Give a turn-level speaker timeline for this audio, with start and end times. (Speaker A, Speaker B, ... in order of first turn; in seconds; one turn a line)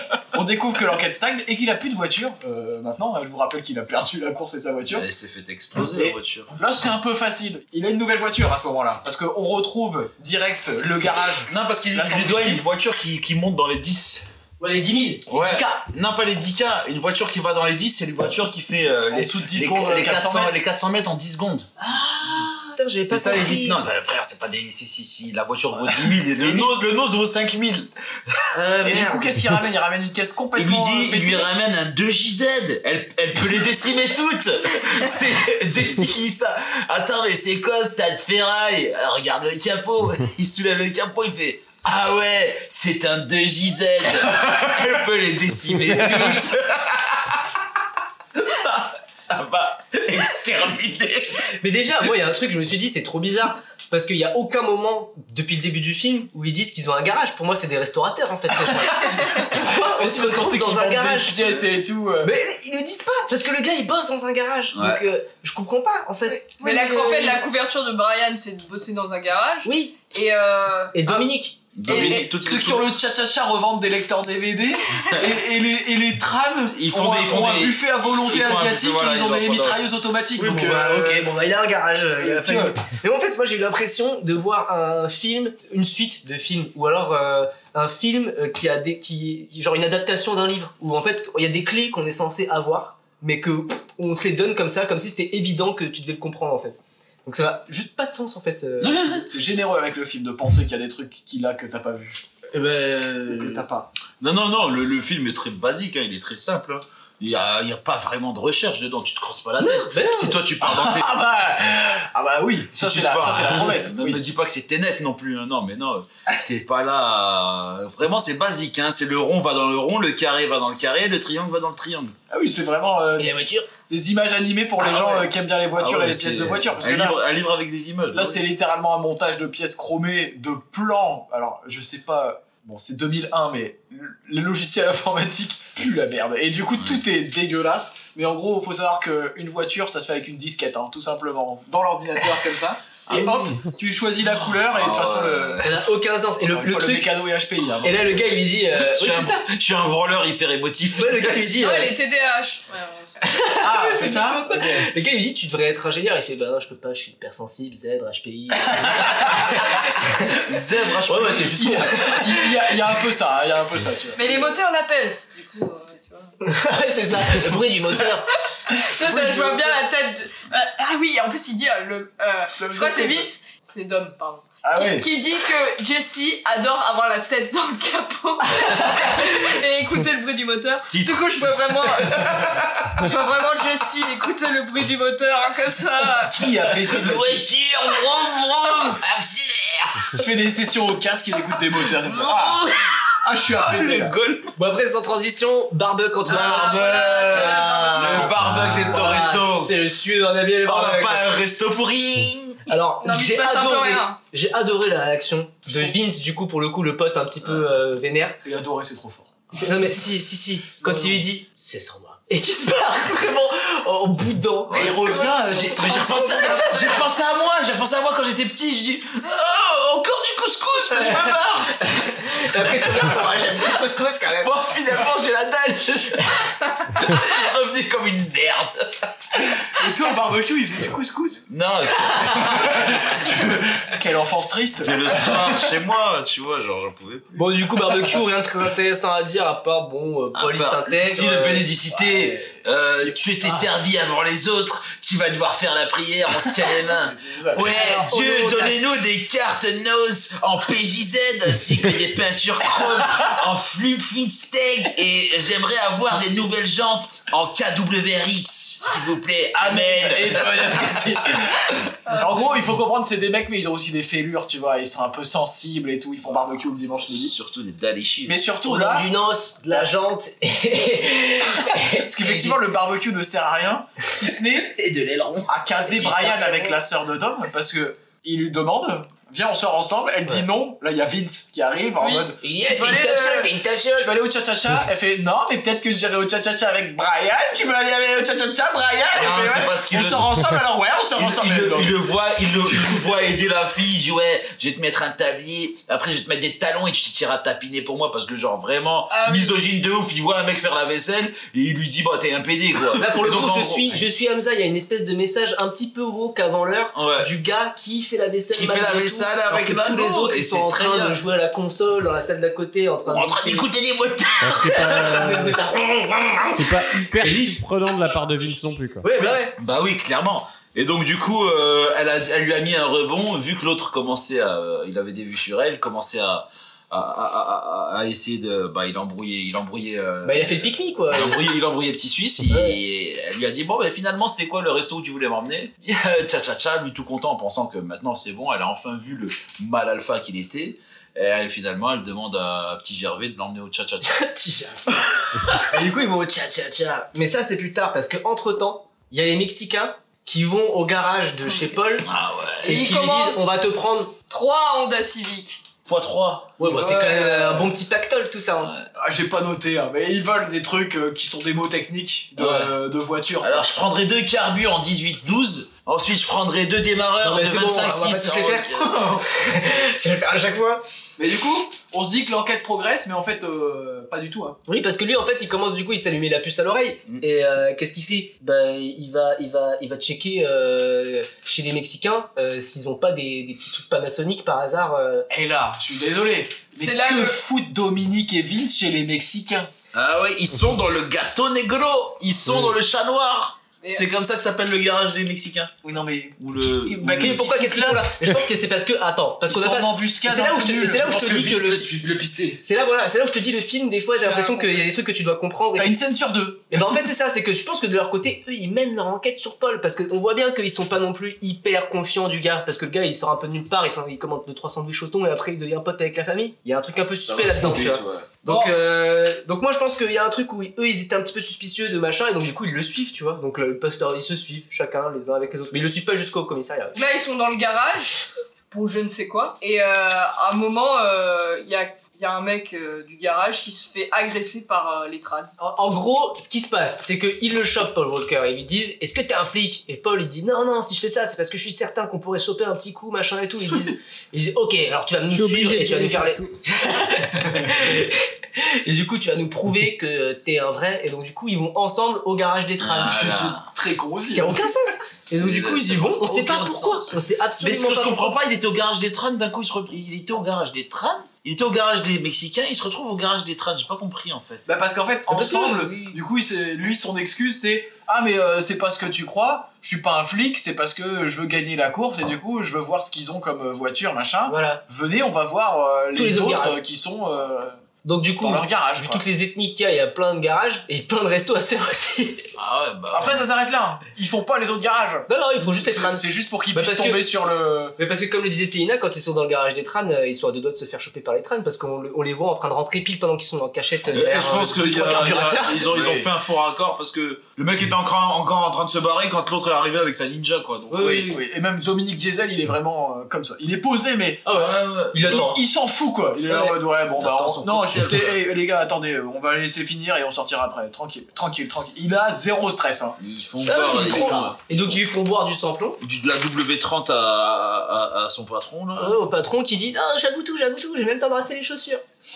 Speaker A: 0.3-5.1
Speaker B: 4.9-6.5
Speaker A: 5.8-12.6
Speaker B: 11.5-14.3
Speaker C: 14.6-15.8
Speaker B: 15.3-21.7
Speaker A: 19.1-20.6
Speaker C: 21.8-23.8
Speaker B: 23.1-27.9
Speaker A: 26.4-26.7
Speaker C: 28.6-29.3
Speaker A: 28.8-31.5
Speaker B: 30.5-47.5
Speaker B: 48.4-51.4
Speaker C: 51.6-61.4
Speaker A: 59.5-62.3
Speaker C: 62.2-67.4
Speaker B: 64.7-65.0
Speaker D: 66.5-71.3
Speaker C: 69.7-70.0
Speaker C: 70.9-72.0
Speaker B: 71.8-72.9
Speaker D: 71.9-72.3
Speaker A: 71.9-81.3
Speaker B: 76.7-79.8
Speaker C: 80.4-99.1
Speaker A: 82.2-82.8
Speaker B: 98.8-99.3
Speaker A: 99.2-102.2
Speaker C: 102.5-103.7
Speaker A: 103.3-103.9
Speaker B: 104.2-111.2
Speaker C: 109.6-110.4
Speaker A: 110.6-114.2
Speaker B: 112.7-122.2
Speaker A: 122.3-127.2
Speaker C: 123.2-123.7
Speaker C: 124.9-125.3
Speaker B: 125.8-128.4
Speaker A: 128.1-145.7
Speaker B: 136.8-137.0
Speaker B: 143.1-143.5
Speaker B: 144.2-145.8
Speaker C: 145.6-147.1
Speaker A: 146.4-148.2
Speaker C: 147.8-149.4
Speaker B: 148.7-151.6
Speaker C: 150.9-151.9
Speaker D: 151.5-153.1
Speaker C: 153.2-160.4
Speaker A: 153.6-154.9
Speaker A: 158.8-159.2
Speaker B: 160.2-161.7
Speaker C: 161.1-162.7
Speaker A: 161.3-164.6
Speaker D: 164.2-166.3
Speaker C: 166.4-168.3
Speaker D: 168.7-186.4
Speaker A: 168.8-169.8
Speaker A: 172.5-173.3
Speaker A: 174.6-175.1
Speaker B: 180.9-183.0
Speaker A: 186.3-187.4
Speaker B: 186.7-190.2
Speaker A: 190.1-192.7
Speaker B: 191.5-194.5
Speaker A: 193.2-194.2
Speaker C: 194.6-201.4
Speaker D: 196.3-198.4
Speaker B: 196.3-199.8
Speaker E: 198.5-198.8
Speaker B: 200.6-202.6
Speaker C: 202.7-208.4
Speaker D: 203.0-204.2
Speaker A: 205.7-206.0
Speaker A: 208.4-209.4
Speaker C: 209.5-217.0
Speaker A: 210.8-211.2
Speaker B: 214.7-223.2
Speaker A: 214.7-216.8
Speaker C: 221.0-224.6
Speaker B: 224.4-229.1
Speaker A: 229.4-231.4
Speaker B: 231.5-233.0
Speaker A: 232.5-235.7
Speaker B: 234.8-237.8
Speaker C: 237.4-242.5
Speaker B: 240.3-261.4
Speaker A: 242.9-243.7
Speaker A: 246.8-248.1
Speaker C: 247.5-248.8
Speaker A: 259.6-267.4
Speaker D: 262.1-262.6
Speaker B: 267.0-268.4
Speaker A: 268.2-269.1
Speaker C: 268.6-272.6
Speaker A: 271.8-274.8
Speaker B: 274.6-275.5
Speaker A: 275.5-292.0
Speaker C: 275.9-276.8
Speaker D: 282.0-282.3
Speaker C: 282.4-284.1
Speaker B: 289.1-290.3
Speaker B: 291.1-304.1
Speaker A: 292.7-293.0
Speaker D: 299.1-299.6
Speaker C: 303.0-313.7
Speaker B: 306.9-307.3
Speaker B: 308.5-311.2
Speaker B: 313.1-316.6
Speaker E: 314.4-315.6
Speaker C: 314.9-316.4
Speaker E: 316.5-319.1
Speaker C: 317.2-317.6
Speaker C: 319.0-319.6
Speaker B: 319.2-344.2
Speaker C: 330.2-331.5
Speaker C: 332.5-332.8
Speaker C: 344.1-352.1
Speaker B: 352.0-352.9
Speaker C: 352.6-354.1
Speaker D: 352.7-353.4
Speaker D: 354.3-355.6
Speaker B: 355.9-356.6
Speaker A: 356.6-357.8
Speaker C: 356.6-358.7
Speaker B: 358.6-358.9
Speaker A: 359.0-363.7
Speaker C: 362.4-362.7
Speaker B: 362.4-362.7
Speaker B: 363.4-369.8
Speaker C: 367.2-370.8
Speaker A: 371.2-374.6
Speaker C: 374.7-385.3
Speaker A: 385.3-389.7
Speaker D: 386.8-387.4
Speaker B: 389.9-395.7
Speaker A: 395.8-396.4
Speaker B: 396.4-397.5
Speaker C: 396.9-401.9
Speaker A: 397.0-398.1
Speaker A: 399.5-402.6
Speaker C: 402.6-405.9
Speaker D: 404.2-404.9
Speaker A: 405.8-406.6
Speaker C: 406.7-427.0
Speaker B: 417.3-418.3
Speaker D: 418.4-418.8
Speaker D: 426.9-428.2
Speaker D: 428.7-435.5
Speaker C: 435.6-453.6
Speaker E: 445.3-446.6
Speaker B: 452.8-453.7
Speaker A: 453.0-454.7
Speaker C: 454.3-458.4
Speaker B: 455.3-464.6
Speaker A: 464.7-477.8
Speaker C: 465.3-466.2
Speaker C: 474.5-474.8
Speaker C: 476.1-476.8
Speaker C: 478.0-482.5
Speaker A: 478.4-479.2
Speaker B: 482.6-483.5
Speaker A: 483.1-488.0
Speaker C: 485.3-487.2
Speaker C: 488.0-496.0
Speaker B: 494.1-501.3
Speaker A: 495.8-496.3
Speaker C: 500.9-501.4
Speaker A: 501.2-504.6
Speaker C: 504.4-505.6
Speaker B: 504.5-505.6
Speaker A: 505.2-513.2
Speaker C: 506.5-507.7
Speaker B: 507.2-508.4
Speaker B: 513.2-515.0
Speaker C: 513.6-516.0
Speaker A: 514.1-514.5
Speaker B: 516.0-519.2
Speaker C: 519.0-522.0